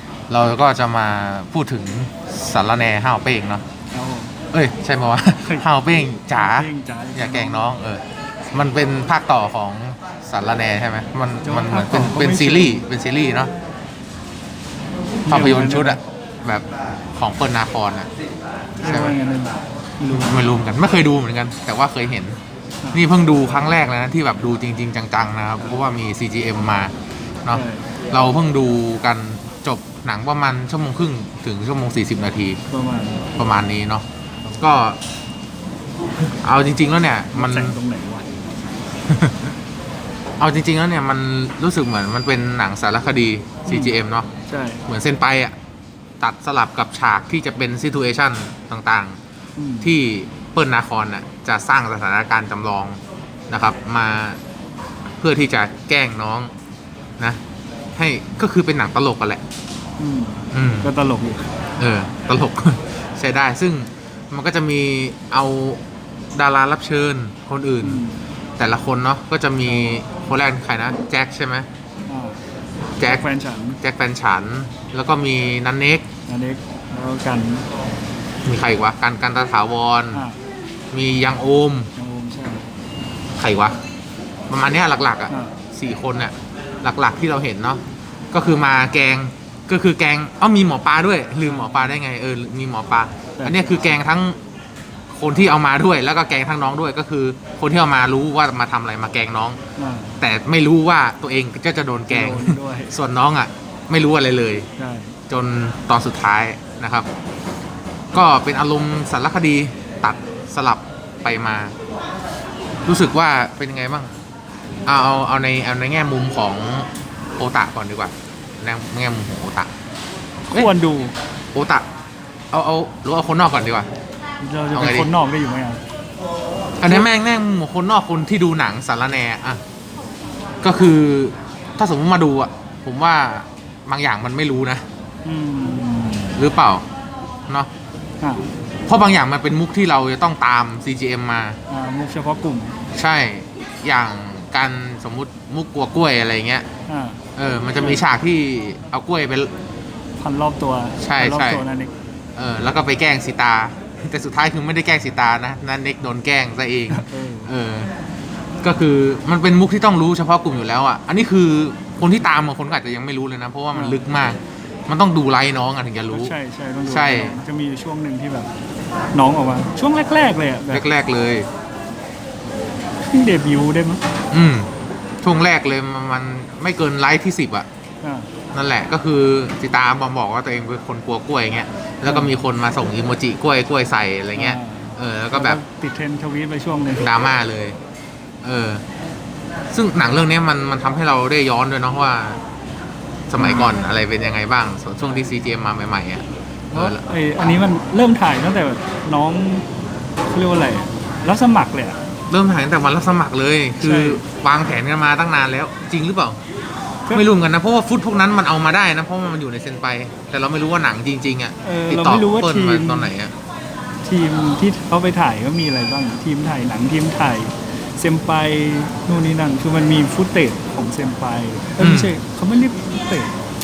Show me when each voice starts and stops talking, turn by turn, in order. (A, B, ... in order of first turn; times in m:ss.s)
0:00.3-0:03.6 A
0:03.9-0:04.4 B
0:04.5-0:13.5 A
0:06.3-0:07.7 B
0:11.4-0:12.8 B
0:15.2-0:16.0 B
0:15.3-0:18.1 A
0:18.8-0:20.4 B
0:18.8-0:19.2 A
0:20.1-0:22.4 A
0:22.9-0:26.9 A
0:27.4-0:32.6 A
0:27.5-0:27.9 B
0:32.7-0:33.3 B
0:33.4-0:34.0 A
0:34.6-0:35.0 A
0:36.3-0:37.8 A
0:37.3-0:38.4 B
0:39.0-0:39.5 A
0:40.4-0:44.3 A
0:43.7-0:44.8 B
0:44.9-0:45.5 A
0:46.2-0:49.2 A
0:49.6-0:49.9 B
0:49.8-0:54.4 A
0:55.2-0:56.5 A
0:58.0-0:59.4 A
1:00.0-1:01.5 B
1:00.5-1:00.9 A
1:01.8-1:05.8 A
1:06.4-1:08.0 A
1:07.8-1:08.2 B
1:08.6-1:11.7 A
1:09.6-1:10.0 B
1:12.1-1:12.4 B
1:13.0-1:13.2 A
1:13.0-1:13.8 B
1:13.8-1:16.0 A
1:16.3-1:17.6 B
1:18.4-1:20.3 A
1:20.1-1:20.4 B
1:20.9-1:21.9 A
1:22.0-1:22.7 B
1:23.4-1:23.8 A
1:24.5-1:34.4 A
1:25.3-1:25.6 B
1:31.4-1:32.0 B
1:33.4-1:34.0 B
1:35.1-1:39.6 A
1:39.8-1:40.2 B
1:40.2-1:44.7 A
1:42.1-1:42.9 B
1:44.8-1:45.2 B
1:45.3-1:47.1 A
1:48.1-1:51.8 A
1:52.9-1:54.1 A
1:54.9-1:59.7 A
2:00.5-2:01.1 B
2:01.5-2:01.8 A
2:02.5-2:03.9 A
2:04.4-2:05.8 B
2:04.7-2:05.1 A
2:06.8-2:09.6 A
2:10.6-2:14.8 A
2:15.2-2:16.4 B
2:16.4-2:16.8 A
2:18.2-2:18.5 B
2:18.9-2:21.6 A
2:21.7-2:22.8 B
2:23.0-2:26.7 A
2:26.9-2:27.2 B
2:27.4-2:29.5 A
2:27.8-2:28.0 B
2:30.2-2:31.9 B
2:31.0-2:31.6 A
2:32.4-2:37.9 A
2:36.9-2:37.5 B
2:38.6-2:46.4 A
2:43.7-2:44.1 B
2:46.1-2:48.5 B
2:46.9-2:47.4 A
2:49.1-2:50.9 B
2:50.7-2:51.5 A
2:53.1-2:54.0 B
2:54.3-2:54.7 A
2:55.2-2:57.7 A
2:58.0-2:58.3 B
2:58.5-3:05.6 A
3:02.0-3:02.4 B
3:04.4-3:07.1 B
3:07.0-3:07.8 A
3:08.4-3:08.8 A
3:09.7-3:12.4 A
3:13.3-3:17.0 A
3:13.4-3:13.8 B
3:16.7-3:19.7 B
3:20.3-3:22.0 B
3:22.3-3:26.4 A
3:23.8-3:24.2 B
3:27.1-3:33.3 A
3:31.6-3:33.1 B
3:34.0-3:43.4 B
3:41.8-3:42.2 A